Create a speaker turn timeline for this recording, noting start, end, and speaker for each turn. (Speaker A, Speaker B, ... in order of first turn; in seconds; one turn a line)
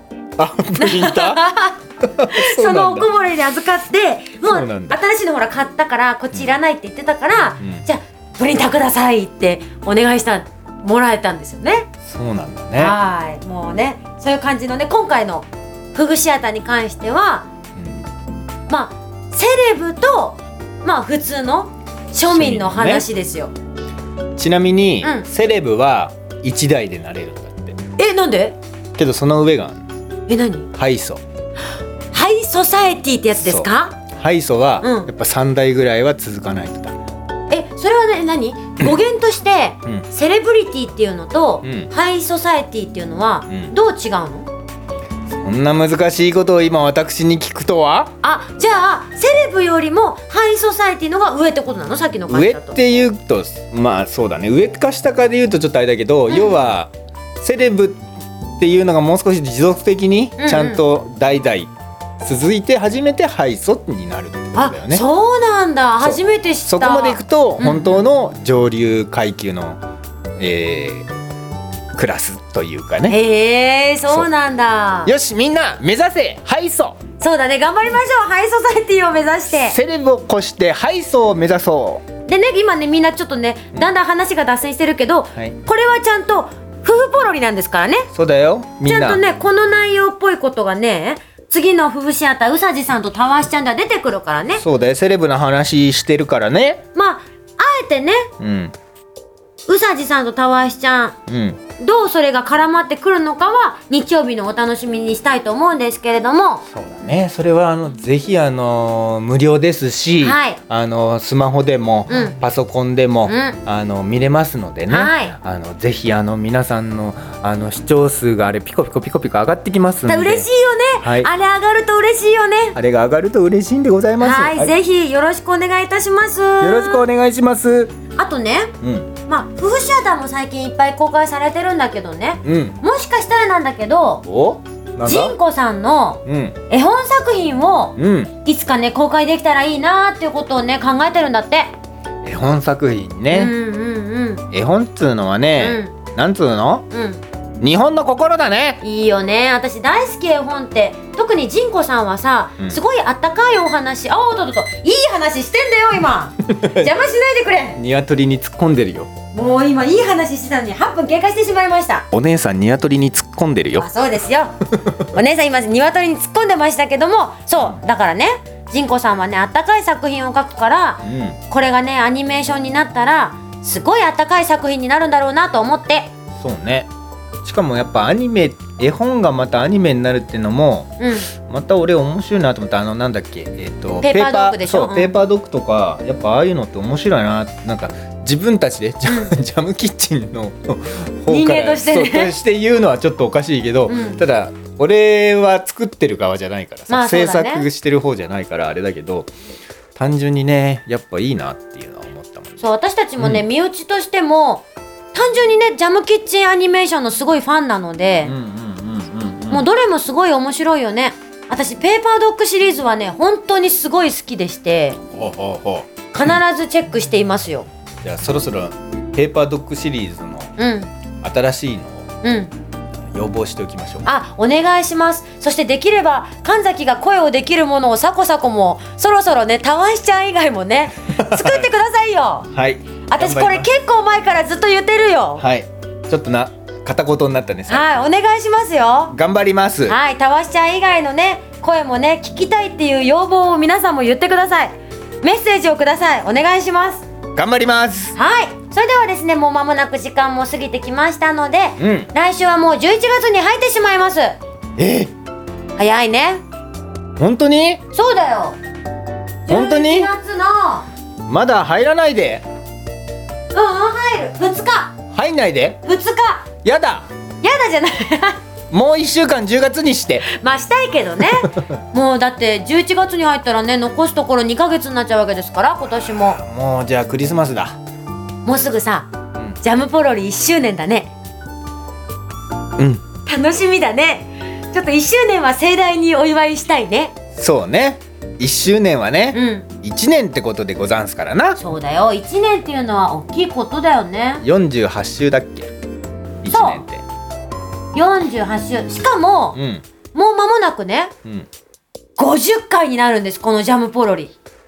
Speaker A: 0.4-1.4
Speaker B: 0.8-11.9
Speaker A: 2.2-3.1
Speaker A: 4.4-5.0
Speaker A: 7.6-7.8
Speaker A: 12.1-13.0
Speaker B: 12.8-17.5
Speaker A: 17.8-18.0
Speaker B: 18.7-23.5
Speaker A: 22.2-23.0
Speaker A: 24.4-27.8
Speaker B: 28.0-28.6
Speaker A: 29.0-29.8
Speaker B: 30.3-30.7
Speaker A: 30.8-31.2
Speaker B: 32.1-34.0
Speaker A: 33.3-36.9
Speaker B: 34.8-35.1
Speaker B: 37.5-44.5
Speaker A: 41.6-41.9
Speaker A: 45.3-48.1
Speaker B: 48.2-52.8
Speaker A: 52.3-58.0
Speaker B: 56.3-56.6
Speaker A: 58.6-65.0
Speaker B: 60.4-60.8
Speaker B: 64.5-68.0
Speaker A: 66.0-69.8
Speaker A: 70.4-71.1
Speaker A: 71.9-73.2
Speaker B: 73.1-75.1
Speaker A: 75.0-77.0
Speaker B: 77.2-79.8
Speaker A: 79.5-82.0
Speaker B: 82.2-88.1
Speaker A: 88.1-89.2
Speaker B: 88.8-94.6
Speaker A: 94.6-96.8
Speaker B: 96.9-98.3
Speaker A: 98.4-98.7
Speaker B: 99.7-101.2
Speaker A: 101.3-101.6
Speaker B: 101.8-106.6
Speaker A: 106.7-120.5
Speaker B: 110.2-110.6
Speaker B: 112.1-112.4
Speaker B: 113.3-113.6
Speaker B: 114.9-115.3
Speaker B: 120.1-122.8
Speaker A: 121.0-121.3
Speaker A: 122.8-124.7
Speaker B: 124.2-127.0
Speaker A: 126.6-127.9
Speaker B: 128.1-128.7
Speaker A: 128.8-129.1
Speaker B: 129.2-134.2
Speaker A: 132.4-132.8
Speaker A: 134.2-135.3
Speaker B: 135.0-141.7
Speaker A: 136.2-136.6
Speaker A: 138.0-138.3
Speaker A: 142.2-143.5
Speaker B: 143.3-144.4
Speaker A: 144.5-146.8
Speaker B: 145.6-145.9
Speaker B: 146.9-147.2
Speaker A: 147.6-148.8
Speaker B: 148.8-157.8
Speaker A: 156.4-156.9
Speaker A: 157.8-159.1
Speaker B: 159.3-162.1
Speaker A: 162.1-163.9
Speaker B: 163.8-164.6
Speaker B: 165.1-176.1
Speaker A: 171.0-171.4
Speaker A: 176.4-176.9
Speaker A: 177.4-199.3
Speaker B: 181.0-181.3
Speaker B: 184.0-185.1
Speaker B: 189.1-189.3
Speaker B: 191.3-192.3
Speaker B: 193.8-194.2
Speaker B: 196.9-197.7
Speaker A: 199.9-202.6
Speaker B: 202.6-208.3
Speaker A: 203.2-203.4
Speaker A: 208.2-209.7
Speaker B: 209.5-215.0
Speaker A: 215.1-216.4
Speaker B: 216.1-217.7
Speaker A: 218.0-220.5
Speaker B: 220.6-220.9
Speaker A: 221.2-222.1
Speaker B: 222.2-222.5
Speaker A: 223.1-224.1
Speaker B: 224.1-232.5
Speaker A: 231.1-231.7
Speaker A: 232.5-233.7
Speaker B: 233.1-235.4
Speaker A: 235.4-237.9
Speaker B: 237.7-239.2
Speaker A: 239.1-240.0
Speaker B: 239.8-247.1
Speaker A: 247.3-248.2
Speaker B: 248.2-254.3
Speaker A: 251.8-252.1
Speaker A: 254.8-255.1
Speaker B: 255.8-256.4
Speaker A: 257.2-257.8
Speaker B: 257.9-258.6
Speaker B: 259.4-260.9
Speaker A: 259.5-260.1
Speaker A: 261.3-262.4
Speaker B: 263.5-264.9
Speaker A: 265.1-265.8
Speaker B: 265.8-266.5
Speaker A: 266.6-267.1
Speaker B: 267.4-268.4
Speaker A: 268.7-270.2
Speaker B: 270.2-276.4
Speaker A: 275.8-277.8
Speaker B: 278.4-279.1
Speaker B: 279.6-281.1
Speaker A: 282.8-283.1
Speaker B: 283.2-287.1
Speaker A: 287.4-291.6
Speaker B: 289.3-289.7
Speaker B: 291.6-294.4
Speaker A: 294.4-295.7
Speaker A: 296.4-297.0
Speaker B: 296.5-296.8
Speaker B: 297.9-299.6
Speaker A: 299.6-299.8
Speaker B: 300.1-301.1
Speaker B: 302.2-304.3